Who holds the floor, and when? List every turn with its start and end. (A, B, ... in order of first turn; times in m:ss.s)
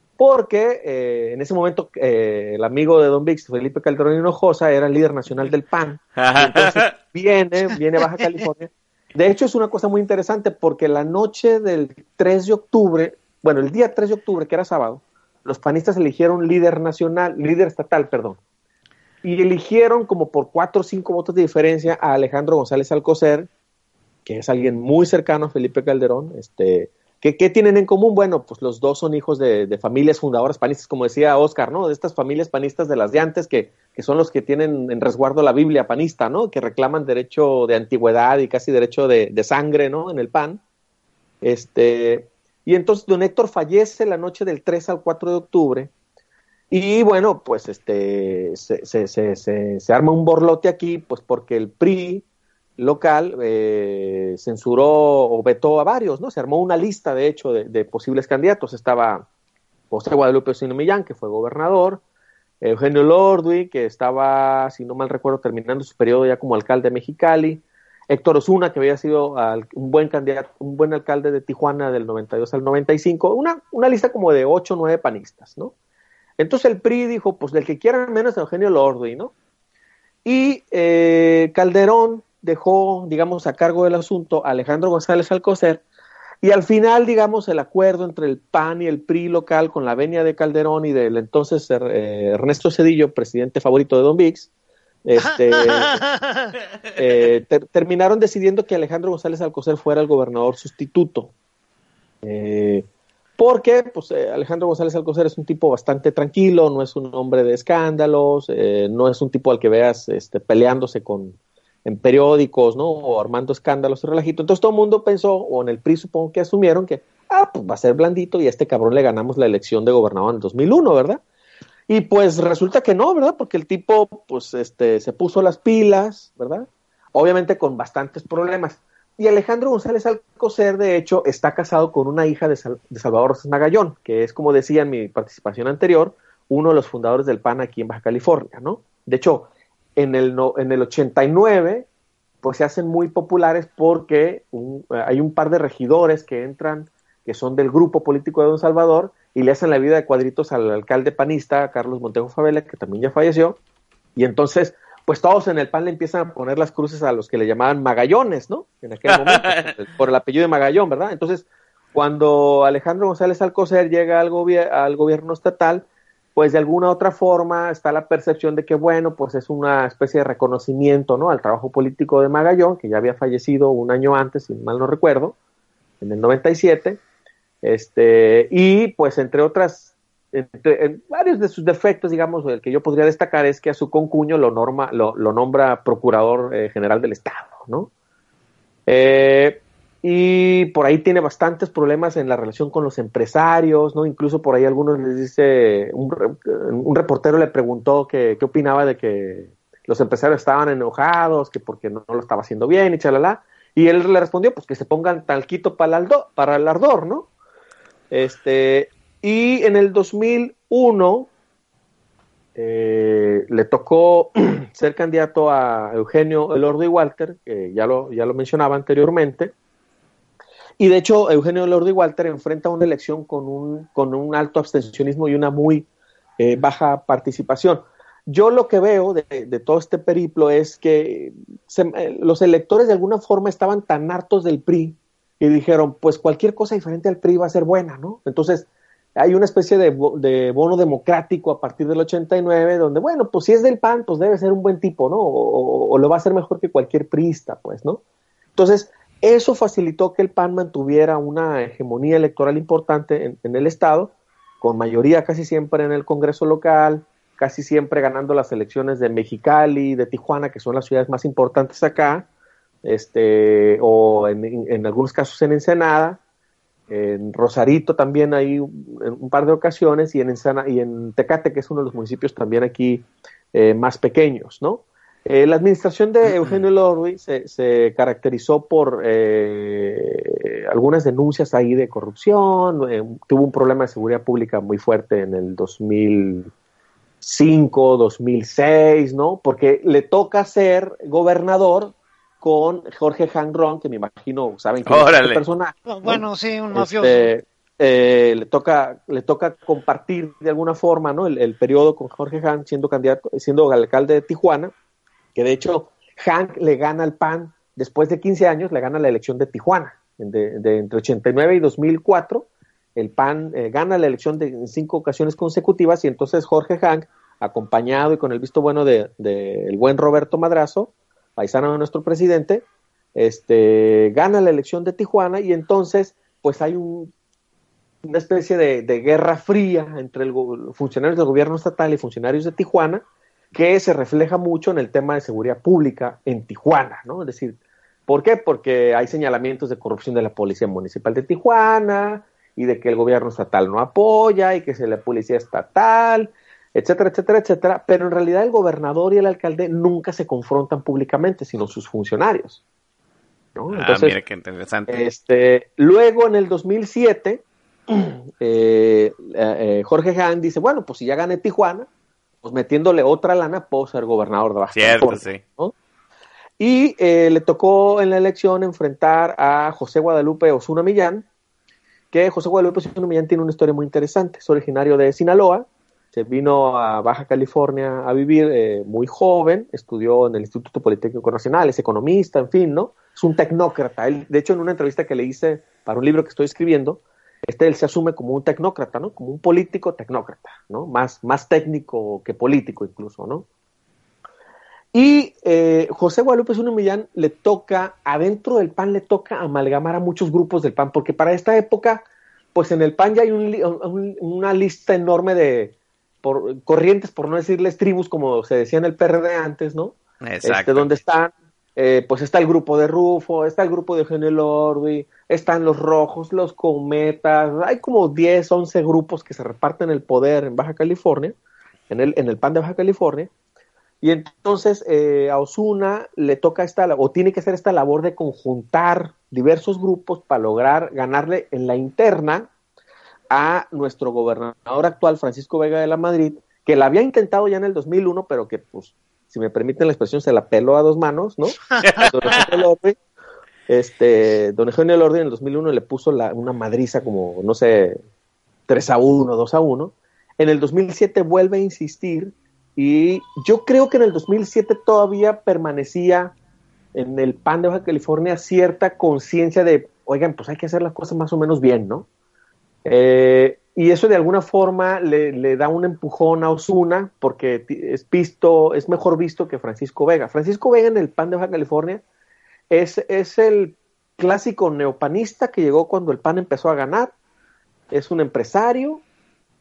0:00.2-0:18.4 A
0:06.2-0:07.0 B
0:19.2-0:23.5 A
0:24.2-0:40.6 A
0:41.4-0:45.9 A
0:46.7-0:52.2 A
0:52.8-0:59.3 A
0:59.9-1:02.0 A
1:02.6-1:15.7 A
1:16.4-1:19.3 A
1:20.2-1:25.8 A
1:26.4-1:34.5 A
1:35.0-1:36.0 A
1:35.2-1:36.6 C
1:37.0-1:41.3 A
1:42.2-1:42.9 A
1:43.4-2:01.2 A
2:01.9-2:21.9 A
2:22.4-2:33.6 A
2:34.2-2:55.4 A
2:39.1-2:39.7 B
2:56.0-2:57.0 A
2:57.6-3:07.9 A
3:08.9-3:27.3 A
3:28.1-3:31.3 A
3:32.6-3:39.5 A
3:40.8-3:45.9 A
3:46.4-4:08.0 A
4:08.6-4:22.3 A
4:22.8-4:26.2 A
4:26.9-4:46.5 A
4:36.3-4:36.6 B
4:47.2-4:56.2 A
4:54.9-4:55.4 B
4:55.9-4:57.3 C
4:56.7-5:04.7 A
5:05.4-5:27.1 A
5:28.0-5:37.6 A
5:38.1-5:52.6 A
5:53.6-5:54.2 A
5:53.7-5:55.0 B
5:54.9-6:01.9 A
6:02.4-6:05.7 A
6:04.7-6:05.4 B
6:06.6-6:11.3 A
6:12.1-6:33.5 A
6:34.9-7:01.4 A
6:50.2-6:50.9 B
7:01.9-7:03.3 A
7:04.0-7:12.5 A
7:13.3-7:23.0 A
7:21.7-7:22.1 C
7:21.8-7:22.5 B
7:23.7-7:28.0 A
7:28.7-7:36.3 A
7:36.9-7:42.1 A
7:42.8-7:52.0 A
7:52.7-7:57.1 A
7:57.9-7:59.0 A